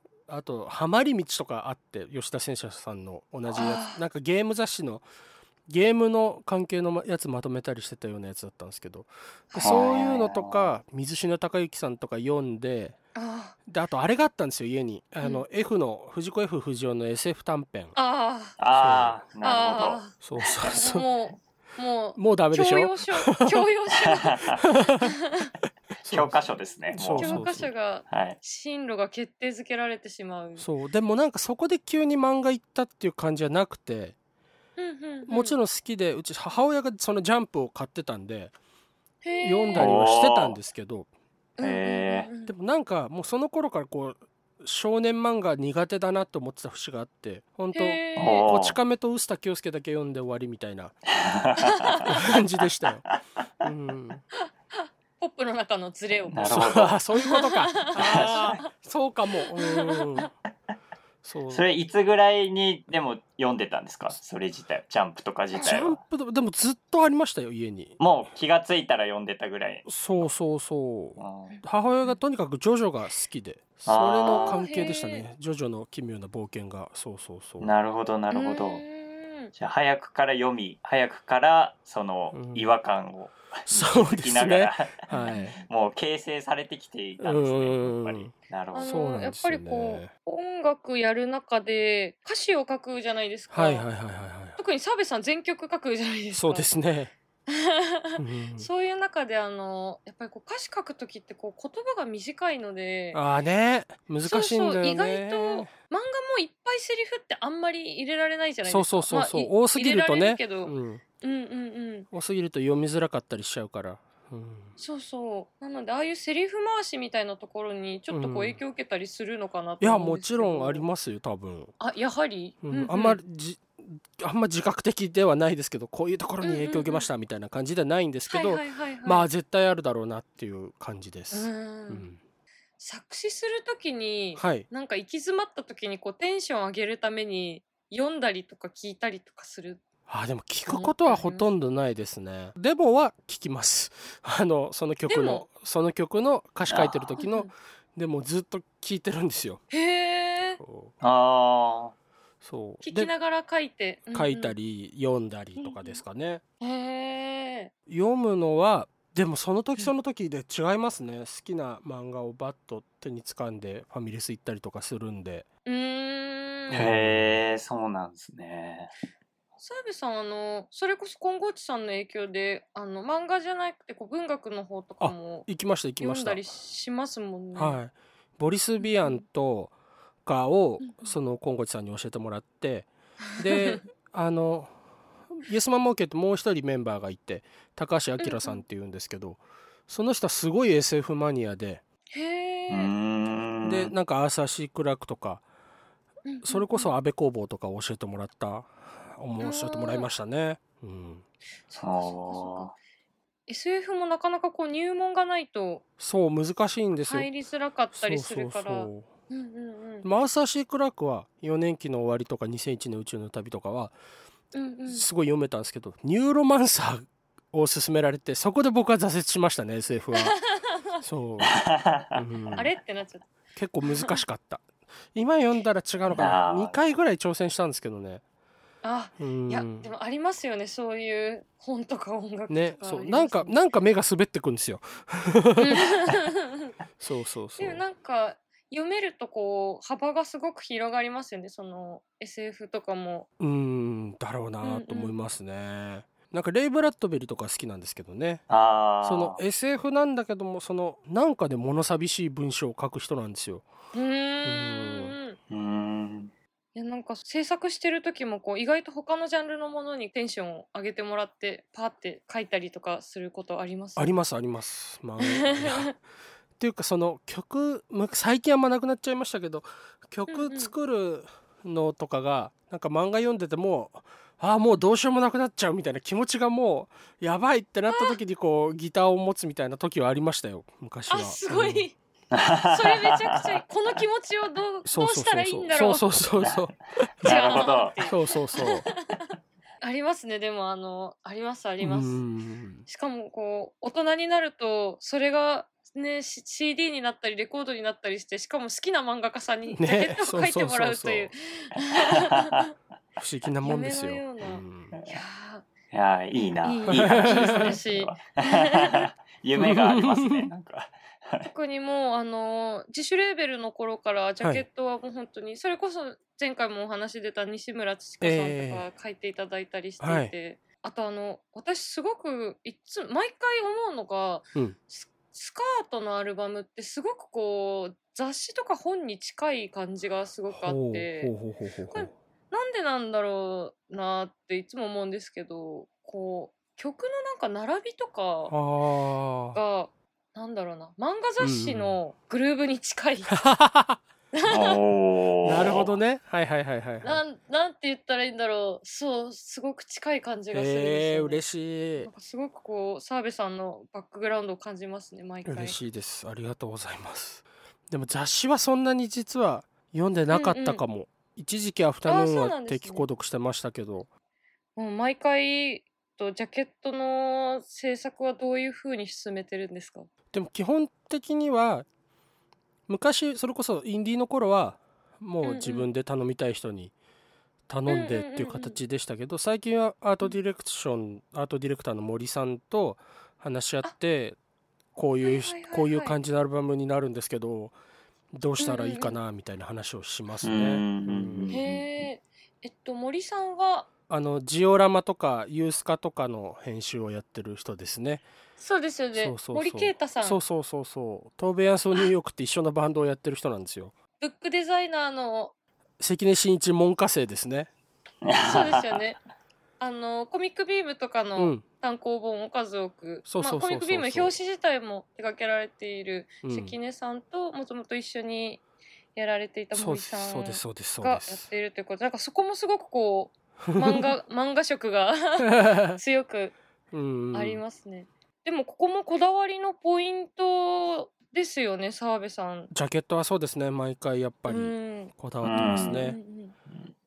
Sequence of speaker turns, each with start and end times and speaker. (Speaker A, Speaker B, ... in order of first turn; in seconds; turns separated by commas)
Speaker A: 0.3-5.0, Speaker B: 3.6-4.0, Speaker A: 5.7-13.0, Speaker C: 9.6-10.7, Speaker B: 13.1-13.6, Speaker A: 13.7-17.9, Speaker B: 17.9-18.6, Speaker C: 18.6-20.0, Speaker A: 18.7-19.2, Speaker B: 19.4-25.5, Speaker A: 20.2-21.1, Speaker A: 22.1-23.7, Speaker C: 24.1-24.6, Speaker A: 24.4-25.1, Speaker A: 26.0-27.7, Speaker C: 26.1-27.6, Speaker B: 27.2-30.6, Speaker C: 28.1-28.4, Speaker A: 30.6-34.1, Speaker B: 34.8-35.5, Speaker A: 35.3-38.5, Speaker B: 39.2-39.9, Speaker A: 39.4-41.1, Speaker C: 39.8-40.6, Speaker B: 41.6-42.5, Speaker C: 41.6-42.3, Speaker A: 42.5-51.0, Speaker B: 47.7-48.5, Speaker C: 48.1-48.8, Speaker C: 51.1-52.1, Speaker B: 51.6-52.1, Speaker A: 52.0-53.0, Speaker A: 53.6-54.2, Speaker B: 55.2-58.7, Speaker C: 56.3-57.0, Speaker A: 56.4-60.3, Speaker C: 57.9-58.6, Speaker B: 59.5-60.3, Speaker A: 61.2-61.6, Speaker C: 61.5-66.0, Speaker A: 65.6-68.0, Speaker C: 68.0-69.9, Speaker A: 69.8-77.7, Speaker C: 71.2-71.5, Speaker C: 73.8-74.6, Speaker B: 74.3-75.2, Speaker C: 77.6-78.8, Speaker B: 78.3-79.5, Speaker C: 79.5-85.1, Speaker A: 82.3-82.7, Speaker A: 83.7-85.6, Speaker B: 85.1-85.5, Speaker C: 85.6-89.0, Speaker A: 87.2-90.1, Speaker B: 88.7-93.8, Speaker A: 93.5-94.6, Speaker B: 94.6-96.7, Speaker A: 96.3-97.1, Speaker B: 97.5-103.2, Speaker A: 98.2-98.7, Speaker A: 103.1-105.7, Speaker B: 104.2-112.1, Speaker A: 108.6-111.0, Speaker A: 112.1-114.7, Speaker B: 114.8-120.8, Speaker A: 118.1-118.6, Speaker A: 119.8-121.7, Speaker B: 121.8-123.2, Speaker A: 122.6-132.2, Speaker B: 126.4-127.1, Speaker B: 128.3-129.3, Speaker B: 131.3-132.1, Speaker B: 132.8-139.8, Speaker A: 134.4-134.7, Speaker A: 140.1-149.6, Speaker B: 140.7-141.4, Speaker B: 145.1-145.4, Speaker C: 146.7-147.2, Speaker B: 147.2-147.5, Speaker B: 149.7-150.6, Speaker A: 150.6-150.9, Speaker C: 151.0-151.9, Speaker A: 152.4-153.1, Speaker B: 152.8-154.5, Speaker A: 154.1-156.4, Speaker B: 155.6-156.0, Speaker B: 156.6-157.7, Speaker A: 157.9-165.4, Speaker B: 165.7-166.8, Speaker A: 166.7-167.4, Speaker C: 166.7-168.9, Speaker B: 169.6-175.5, Speaker A: 175.0-176.4, Speaker B: 176.0-177.8, Speaker A: 177.6-179.7, Speaker B: 178.8-179.2, Speaker A: 180.2-184.7, Speaker B: 180.8-181.1, Speaker B: 183.3-183.8, Speaker A: 185.4-191.8, Speaker B: 188.2-188.6, Speaker B: 192.1-192.9, Speaker C: 192.7-193.9, Speaker A: 193.6-195.4, Speaker B: 196.2-196.9, Speaker A: 196.4-201.2, Speaker B: 199.4-200.1, Speaker B: 201.7-202.7, Speaker C: 201.8-202.7, Speaker B: 203.5-205.8, Speaker A: 206.0-207.3, Speaker B: 207.1-210.1, Speaker A: 207.9-209.1, Speaker A: 210.0-213.9, Speaker B: 214.5-215.1, Speaker A: 214.9-220.4, Speaker B: 220.2-221.0, Speaker A: 221.0-221.6, Speaker C: 221.4-222.2, Speaker A: 222.1-222.7, Speaker B: 222.5-223.3, Speaker A: 223.5-228.2, Speaker B: 223.8-224.2, Speaker C: 226.1-226.8, Speaker B: 228.8-233.6, Speaker A: 229.2-229.9, Speaker A: 232.5-236.1, Speaker B: 235.6-236.7, Speaker A: 237.0-237.8, Speaker B: 237.6-243.3, Speaker A: 243.4-248.4, Speaker B: 244.6-245.2, Speaker C: 248.5-249.4, Speaker A: 249.0-253.6, Speaker B: 253.9-255.4, Speaker A: 254.4-255.2, Speaker C: 255.5-256.3, Speaker B: 256.7-264.1, Speaker A: 264.0-265.9, Speaker B: 265.2-265.9, Speaker A: 266.6-281.9, Speaker B: 270.3-270.7, Speaker B: 277.9-278.2, Speaker B: 281.1-281.9, Speaker C: 282.3-283.6, Speaker B: 282.6-286.1, Speaker A: 284.9-288.9, Speaker C: 287.2-288.0, Speaker B: 287.2-292.2, Speaker A: 291.8-292.8, Speaker B: 292.9-302.7, Speaker A: 299.7-301.3, Speaker A: 303.2-304.9, Speaker B: 303.6-305.6, Speaker C: 305.9-311.5, Speaker B: 306.6-309.1, Speaker A: 306.9-307.8, Speaker A: 309.6-310.5, Speaker B: 311.4-331.3, Speaker A: 318.2-318.9, Speaker A: 320.0-320.3, Speaker A: 330.5-332.1, Speaker B: 331.9-338.5, Speaker A: 338.5-339.6, Speaker B: 339.5-343.4, Speaker A: 341.4-342.0, Speaker A: 343.3-344.0, Speaker B: 344.3-344.8, Speaker C: 344.5-345.9, Speaker A: 345.4-347.2, Speaker B: 347.0-351.4, Speaker A: 350.5-352.1, Speaker B: 352.0-355.8, Speaker A: 355.4-364.1, Speaker B: 360.3-360.8, Speaker B: 362.1-363.1, Speaker B: 364.8-370.1, Speaker A: 370.3-371.9, Speaker A: 372.9-376.9, Speaker B: 375.4-375.9, Speaker A: 377.7-384.4, Speaker B: 377.9-378.8, Speaker A: 384.9-387.7, Speaker B: 385.2-386.1, Speaker A: 388.3-391.6, Speaker B: 388.6-389.1, Speaker C: 390.4-391.9, Speaker B: 391.5-393.9, Speaker A: 394.1-398.2, Speaker B: 398.6-400.4, Speaker A: 399.1-403.9, Speaker B: 404.2-405.5, Speaker A: 406.0-407.7, Speaker C: 408.2-409.0, Speaker B: 408.4-409.2, Speaker B: 409.8-418.6, Speaker A: 411.4-411.6, Speaker A: 413.2-414.3, Speaker A: 416.4-416.8, Speaker B: 419.1-426.5, Speaker A: 419.7-421.5, Speaker A: 423.7-424.1, Speaker A: 425.4-426.0, Speaker A: 426.9-427.6, Speaker B: 427.3-432.7, Speaker A: 432.7-436.2, Speaker B: 434.5-436.5, Speaker C: 435.4-436.1